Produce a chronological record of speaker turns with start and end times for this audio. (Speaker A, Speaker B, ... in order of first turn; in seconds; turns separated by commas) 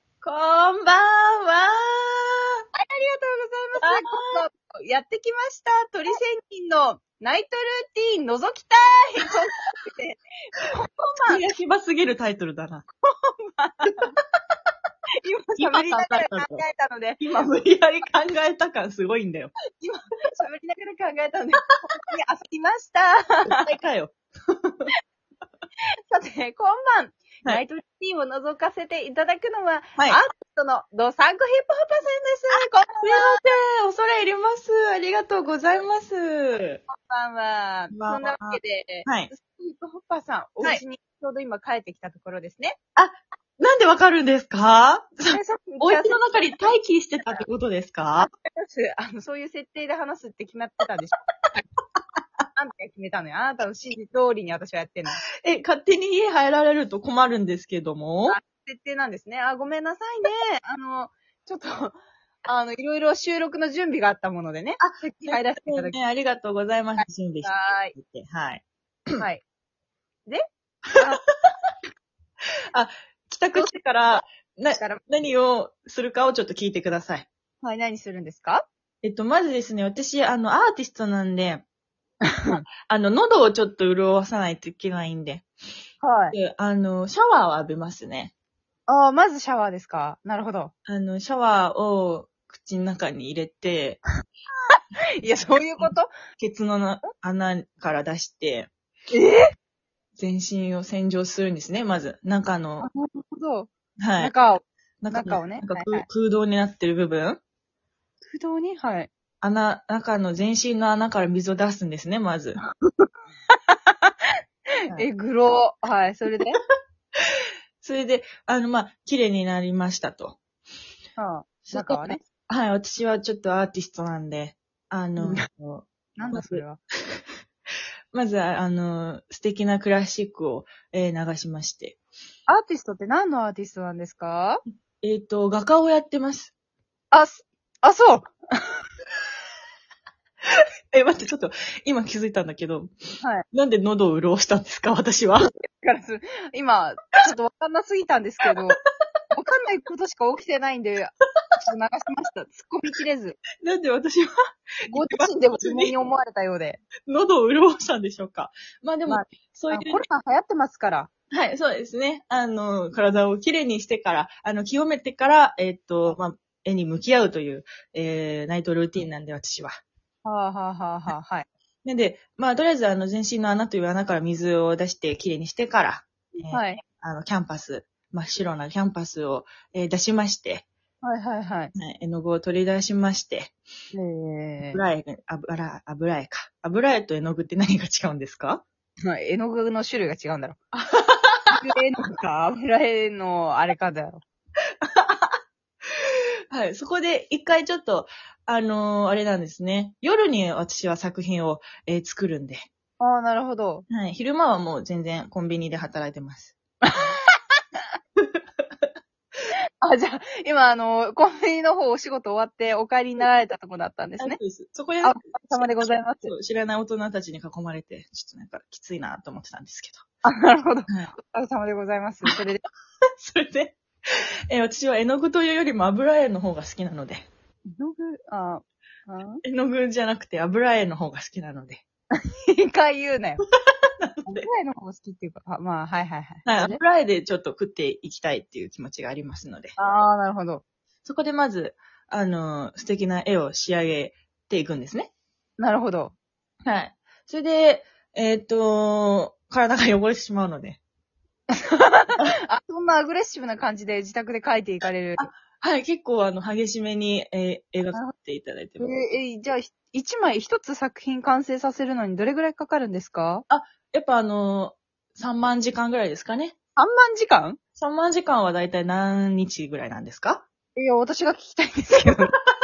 Speaker A: 0.2-2.4, Speaker B: 2.8-11.4, Speaker A: 3.8-4.4, Speaker A: 11.2-12.8, Speaker B: 13.0-14.1, Speaker B: 15.2-17.4, Speaker A: 15.6-16.6, Speaker A: 17.2-19.6, Speaker B: 19.8-23.6, Speaker A: 23.4-24.9, Speaker B: 26.1-33.4, Speaker A: 32.5-36.8, Speaker B: 36.9-42.8, Speaker A: 37.9-39.3, Speaker A: 43.0-48.3, Speaker B: 45.3-46.6, Speaker B: 48.2-51.6, Speaker B: 52.5-55.2, Speaker A: 55.4-58.4, Speaker B: 58.3-66.0, Speaker A: 64.8-69.2, Speaker B: 67.0-68.0, Speaker B: 69.2-69.4, Speaker B: 71.0-71.2, Speaker A: 72.7-77.3, Speaker B: 74.7-75.0, Speaker B: 77.6-78.7, Speaker A: 79.0-81.7, Speaker B: 82.3-82.6, Speaker A: 82.9-85.5, Speaker B: 86.0-86.4, Speaker A: 86.3-88.3, Speaker B: 88.9-90.7, Speaker A: 90.9-94.0, Speaker B: 94.7-96.1, Speaker A: 95.8-98.7, Speaker B: 99.1-99.5, Speaker A: 100.2-102.9, Speaker B: 102.8-106.1, Speaker A: 104.0-104.3, Speaker A: 105.0-107.4, Speaker B: 108.3-109.1, Speaker A: 109.4-112.6, Speaker B: 113.7-114.1, Speaker B: 114.9-116.6, Speaker A: 117.8-120.4, Speaker B: 121.2-122.2, Speaker A: 121.7-127.2, Speaker B: 125.2-125.5, Speaker B: 126.2-126.8, Speaker A: 128.1-132.0, Speaker B: 132.5-134.6, Speaker A: 135.0-136.5, Speaker B: 137.1-138.8, Speaker A: 140.5-142.9, Speaker A: 143.5-145.5, Speaker B: 145.4-148.8, Speaker B: 149.3-153.4, Speaker A: 153.6-154.3, Speaker A: 154.9-156.0, Speaker B: 154.9-156.8, Speaker A: 157.1-160.1, Speaker B: 159.1-161.1, Speaker A: 161.3-169.8, Speaker B: 170.2-171.5, Speaker A: 171.8-180.7, Speaker B: 176.5-176.8, Speaker B: 181.0-181.7, Speaker A: 181.8-183.5, Speaker B: 183.9-184.8, Speaker A: 184.7-188.6, Speaker B: 189.1-190.6, Speaker A: 190.7-191.6, Speaker B: 191.5-194.2, Speaker A: 194.8-195.4, Speaker A: 196.0-202.7, Speaker B: 203.0-203.9, Speaker A: 203.9-206.6, Speaker B: 206.8-207.4, Speaker B: 209.8-214.4, Speaker A: 214.2-220.0, Speaker B: 215.0-216.3, Speaker B: 220.2-222.6, Speaker A: 223.2-227.3, Speaker B: 227.7-229.4, Speaker A: 229.4-231.8, Speaker B: 232.2-233.4, Speaker A: 234.0-234.5, Speaker B: 234.3-236.8, Speaker A: 236.4-239.8, Speaker B: 239.8-240.6, Speaker A: 241.1-245.1, Speaker B: 245.6-246.2, Speaker A: 246.7-250.8, Speaker B: 251.5-255.3, Speaker A: 255.2-259.0, Speaker B: 258.8-263.4, Speaker A: 263.5-266.6, Speaker B: 266.8-267.6, Speaker A: 267.8-270.5, Speaker B: 270.8-272.4